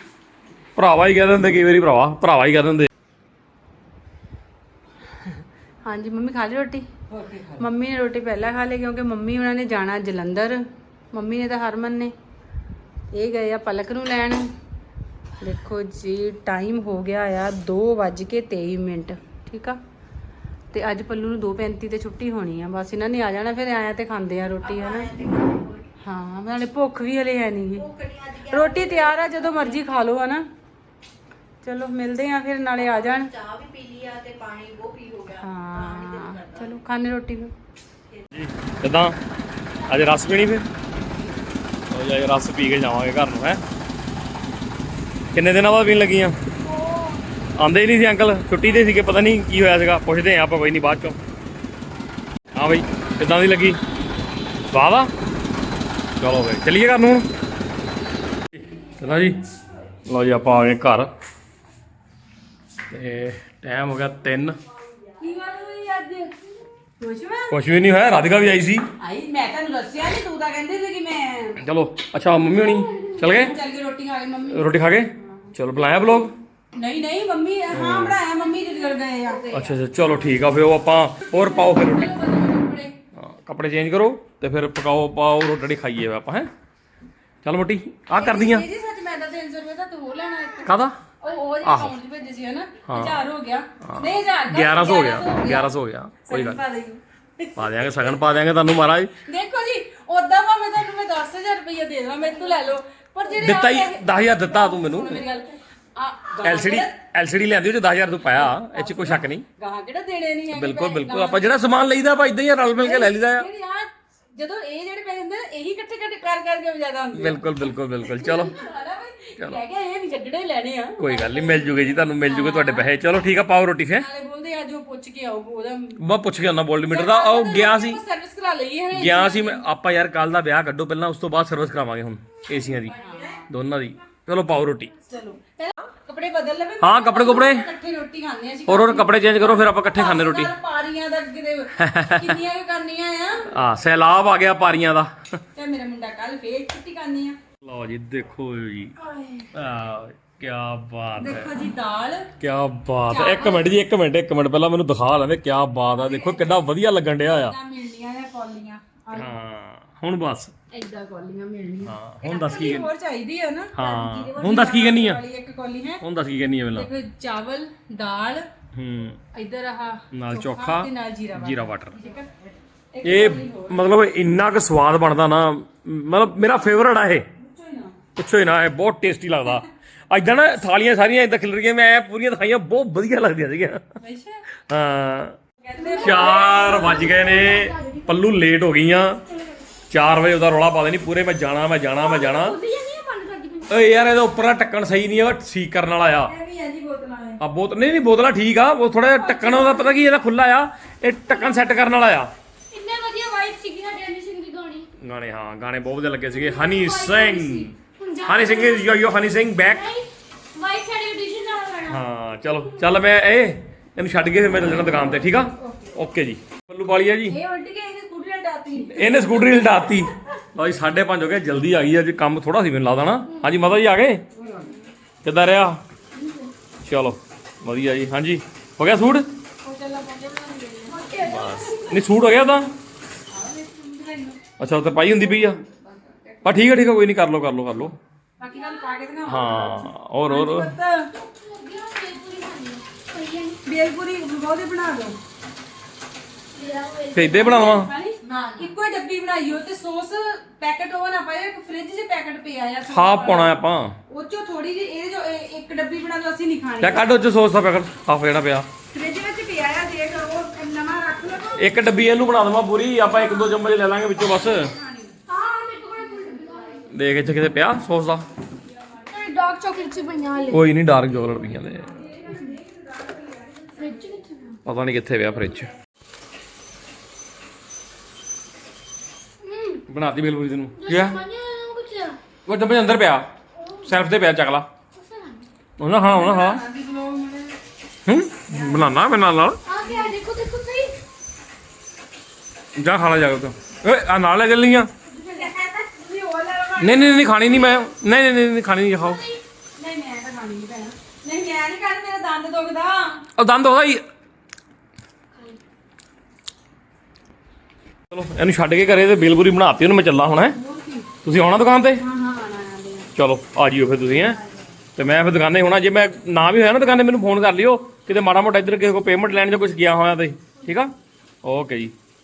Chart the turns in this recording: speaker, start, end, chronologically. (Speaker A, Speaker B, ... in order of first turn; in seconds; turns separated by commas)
Speaker A: 0.8-2.9, Speaker B: 5.8-10.6, Speaker B: 11.1-12.1, Speaker B: 13.1-14.5, Speaker B: 15.4-19.8, Speaker B: 20.7-25.2, Speaker B: 26.0-27.9, Speaker C: 27.9-28.6, Speaker B: 28.4-30.4, Speaker C: 29.2-29.6, Speaker B: 31.6-33.3, Speaker C: 33.0-36.7, Speaker B: 35.3-37.5, Speaker A: 38.3-39.2, Speaker A: 39.9-40.7, Speaker A: 41.9-43.6, Speaker A: 45.3-46.4, Speaker A: 47.6-51.2, Speaker A: 52.5-53.8, Speaker A: 54.7-55.1, Speaker A: 56.2-57.3, Speaker A: 58.5-59.4, Speaker A: 60.1-61.1, Speaker A: 62.9-64.6, Speaker B: 65.2-66.3, Speaker B: 67.0-67.5, Speaker A: 67.5-68.8, Speaker B: 69.0-71.6, Speaker A: 71.6-73.5, Speaker B: 73.1-74.7, Speaker A: 74.5-76.3, Speaker B: 75.2-75.5, Speaker B: 76.8-80.3, Speaker A: 77.7-78.2, Speaker A: 79.5-82.1, Speaker B: 81.3-83.0, Speaker A: 83.2-86.5, Speaker A: 87.4-88.7, Speaker B: 88.1-95.7, Speaker A: 90.7-91.0, Speaker A: 91.6-92.0, Speaker A: 92.9-93.2, Speaker A: 93.8-96.6, Speaker B: 96.3-98.1, Speaker A: 97.6-99.1, Speaker B: 99.3-106.9, Speaker A: 103.4-105.2, Speaker A: 106.4-109.5, Speaker B: 108.4-111.7, Speaker A: 110.5-113.5, Speaker B: 112.8-122.9, Speaker A: 117.1-118.5, Speaker A: 121.0-124.1, Speaker B: 124.0-126.0, Speaker A: 126.0-128.0, Speaker B: 126.9-129.6, Speaker A: 128.9-133.0, Speaker B: 132.9-133.4, Speaker A: 133.5-134.9, Speaker B: 135.1-143.5, Speaker A: 136.8-137.7, Speaker A: 138.7-140.5, Speaker A: 141.8-142.4, Speaker A: 143.5-145.1, Speaker B: 145.6-147.4, Speaker A: 147.6-148.9, Speaker B: 149.2-149.4, Speaker A: 149.5-151.5, Speaker B: 151.2-152.3, Speaker A: 152.4-157.6, Speaker B: 153.1-153.7, Speaker B: 155.9-156.6, Speaker B: 157.3-159.3, Speaker A: 159.1-160.5, Speaker B: 160.7-166.0, Speaker A: 161.8-162.9, Speaker A: 163.8-165.2, Speaker A: 166.0-166.9, Speaker B: 166.7-168.5, Speaker A: 168.8-169.2, Speaker B: 169.3-172.3, Speaker A: 170.1-172.0, Speaker B: 172.9-173.8, Speaker A: 173.0-177.3, Speaker B: 177.4-178.0, Speaker A: 178.2-183.8, Speaker B: 184.0-184.4, Speaker A: 184.7-185.3, Speaker B: 185.6-187.0, Speaker D: 185.8-188.1, Speaker A: 186.0-189.2, Speaker A: 189.9-192.6, Speaker D: 192.0-193.8, Speaker A: 193.7-196.3, Speaker B: 196.3-197.4, Speaker A: 197.4-202.3, Speaker B: 199.2-200.0, Speaker D: 202.7-204.9, Speaker A: 205.0-209.9, Speaker D: 206.4-208.9, Speaker D: 209.7-212.0, Speaker A: 211.8-217.4, Speaker B: 217.3-219.4, Speaker A: 218.9-224.2, Speaker B: 224.4-224.8, Speaker A: 225.2-225.8, Speaker A: 226.8-229.3, Speaker B: 229.6-231.2, Speaker D: 230.4-232.0, Speaker A: 231.2-232.7, Speaker B: 233.4-234.4, Speaker A: 234.6-235.6, Speaker A: 236.4-238.0, Speaker B: 238.4-241.1, Speaker A: 239.3-240.7, Speaker D: 241.2-243.6, Speaker B: 243.6-245.2, Speaker D: 246.6-247.9, Speaker A: 247.1-247.9, Speaker B: 247.3-253.5, Speaker C: 248.2-248.7, Speaker A: 252.9-254.0, Speaker B: 254.1-257.1, Speaker A: 256.8-258.7, Speaker B: 258.9-261.7, Speaker A: 261.6-264.7, Speaker B: 263.3-263.6, Speaker B: 264.3-265.2, Speaker D: 265.3-266.9, Speaker A: 266.9-268.3, Speaker D: 269.1-270.6, Speaker B: 269.5-270.1, Speaker A: 270.5-272.0, Speaker B: 272.0-273.9, Speaker D: 273.8-274.6, Speaker A: 274.7-275.7, Speaker D: 279.4-279.8, Speaker A: 279.9-281.2, Speaker D: 280.8-282.2, Speaker A: 282.5-283.3, Speaker A: 283.8-284.7, Speaker D: 285.0-285.5, Speaker A: 285.8-286.6, Speaker B: 286.0-287.6, Speaker A: 288.1-289.6, Speaker B: 288.5-288.9, Speaker D: 289.7-290.9, Speaker B: 289.8-290.1, Speaker A: 292.8-294.9, Speaker B: 295.1-297.5, Speaker D: 295.3-295.8, Speaker A: 296.8-299.3, Speaker D: 299.0-299.4, Speaker B: 299.8-303.2, Speaker A: 303.4-304.0, Speaker A: 308.1-310.6, Speaker B: 310.6-311.1, Speaker A: 311.2-312.0, Speaker B: 312.0-313.1, Speaker A: 313.1-314.4, Speaker A: 315.0-320.9, Speaker A: 321.4-321.9